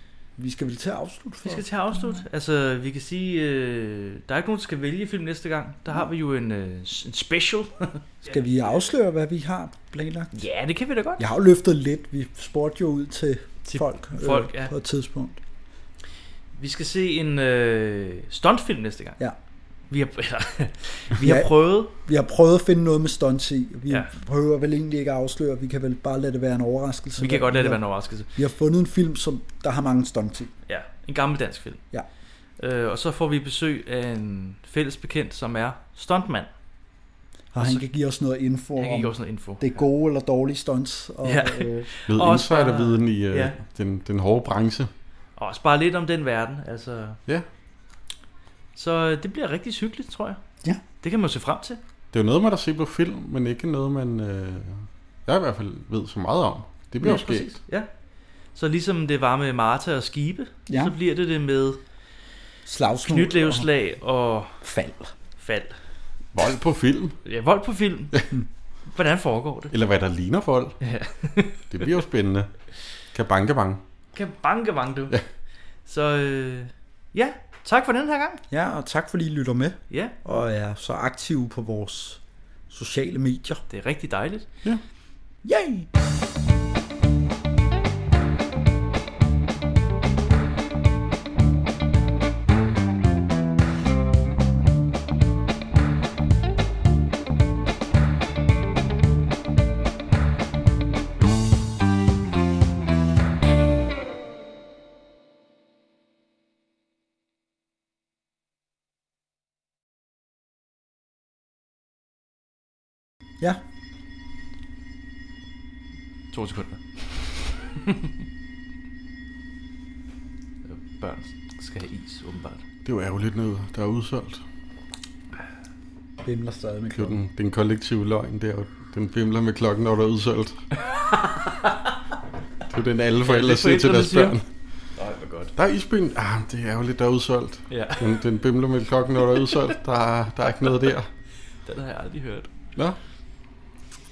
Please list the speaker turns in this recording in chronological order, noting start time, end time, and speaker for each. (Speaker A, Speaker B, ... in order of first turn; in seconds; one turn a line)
Speaker A: 0.4-2.2
Speaker B: 1.4-8.1
Speaker A: 8.2-10.3
Speaker B: 10.3-11.3
Speaker A: 11.2-15.4
Speaker B: 13.6-14.7
Speaker B: 16.6-19.2
Speaker B: 19.9-21.9
Speaker A: 21.2-27.8
Speaker B: 27.2-28.3
Speaker A: 28.3-30.5
Speaker B: 30.7-31.8
Speaker B: 32.6-36.5
Speaker A: 37.5-41.9
Speaker B: 37.6-37.9
Speaker B: 38.8-39.8
Speaker B: 41.2-43.6
Speaker C: 42.1-44.9
Speaker B: 45.4-47.2
Speaker B: 48.7-50.4
Speaker B: 51.0-51.8
Speaker C: 52.1-57.5
Speaker B: 57.0-57.9
Speaker B: 58.5-61.8
Speaker A: 60.7-60.9
Speaker A: 62.6-63.7
Speaker B: 63.1-64.6
Speaker A: 64.6-65.1
Speaker B: 65.4-65.8
Speaker C: 66.3-67.2
Speaker B: 67.2-68.2
Speaker B: 68.9-69.7
Speaker C: 69.7-70.8
Speaker B: 70.8-71.6
Speaker C: 71.7-72.5
Speaker C: 73.1-73.8
Speaker B: 74.1-75.1
Speaker B: 75.8-78.4
Speaker A: 78.5-83.6
Speaker B: 79.9-80.1
Speaker B: 83.7-84.5
Speaker A: 85.4-85.9
Speaker B: 116.3-118.1
Speaker B: 120.7-122.6
Speaker C: 122.8-124.4
Speaker A: 126.2-127.2
Speaker C: 127.0-130.6
Speaker B: 131.1-131.9
Speaker C: 132.7-134.5
Speaker B: 133.2-134.3
Speaker B: 135.0-135.5
Speaker C: 135.6-141.1
Speaker B: 137.7-138.2
Speaker B: 141.6-142.5